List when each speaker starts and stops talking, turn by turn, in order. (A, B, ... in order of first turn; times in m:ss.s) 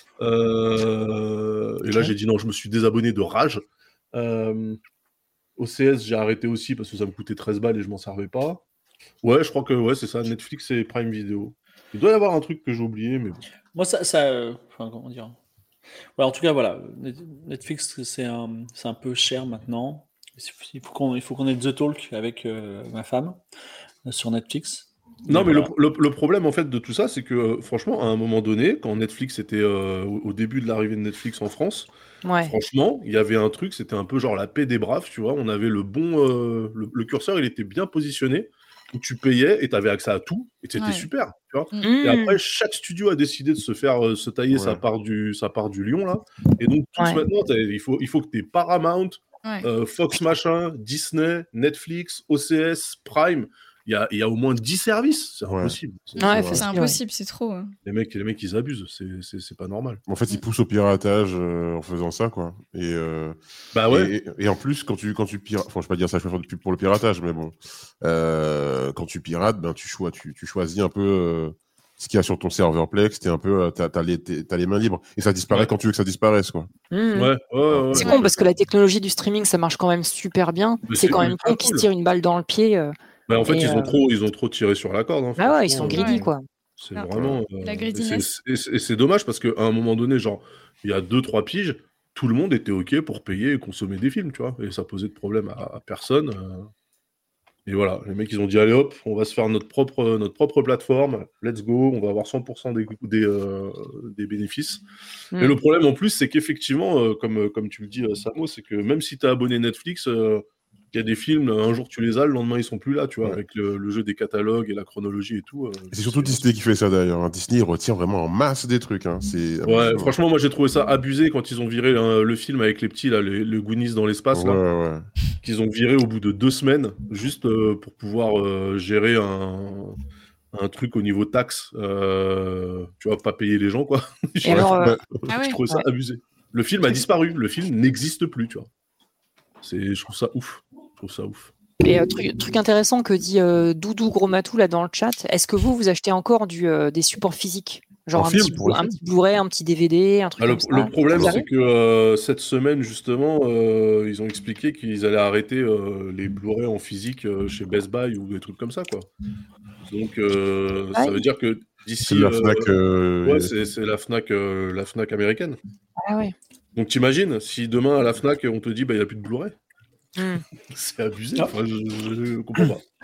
0:00.2-0:04.8 A
0:05.6-0:08.6 A
0:09.2-0:13.4 A
0:13.7-0:15.4 B
0:16.2-0:23.4 B
0:24.0-0:25.7 B
0:25.3-0:31.9 A
0:32.2-0:32.5 C
0:32.4-0:56.6 A
0:40.8-0:41.1 D
0:41.8-0:42.4 C
0:44.5-0:44.8 E
0:47.0-0:47.2 C
0:49.4-0:49.7 D
0:55.5-0:56.6 E
0:56.2-0:57.0 C
0:56.5-0:57.7 D
0:57.8-1:00.0 A
1:00.1-1:03.4 E
1:03.7-1:04.1 A
1:03.9-1:16.7 E
1:16.9-1:17.3 C
1:17.1-1:18.2 A
1:17.7-1:18.5 E
1:17.9-1:22.9 C
1:20.9-1:21.8 A
1:23.3-1:26.3 A
1:23.4-1:24.0 C
1:25.4-1:26.4 C
1:25.9-1:26.3 D
1:26.8-1:36.7 A
1:27.1-1:27.4 E
1:27.6-1:28.3 D
1:37.6-1:44.8 A
1:45.4-1:56.4 A
1:55.9-2:00.2 E
1:59.6-2:04.6 A
2:04.3-2:05.0 E
2:05.4-2:10.0 A
2:10.5-2:18.7 A
2:14.4-2:15.0 C
2:14.5-2:15.1 E
2:15.3-2:15.6 D
2:19.6-2:21.5 A
2:21.8-2:31.4 C
2:28.1-2:29.0 E
2:30.4-2:39.1 A
2:31.1-2:31.4 E
2:39.9-2:42.7 A
2:40.9-2:41.2 C
2:42.0-2:43.5 E
2:43.2-2:45.6 A
2:46.0-2:46.3 C
2:46.8-2:49.5 A
2:50.2-2:50.4 C
2:50.7-2:52.8 A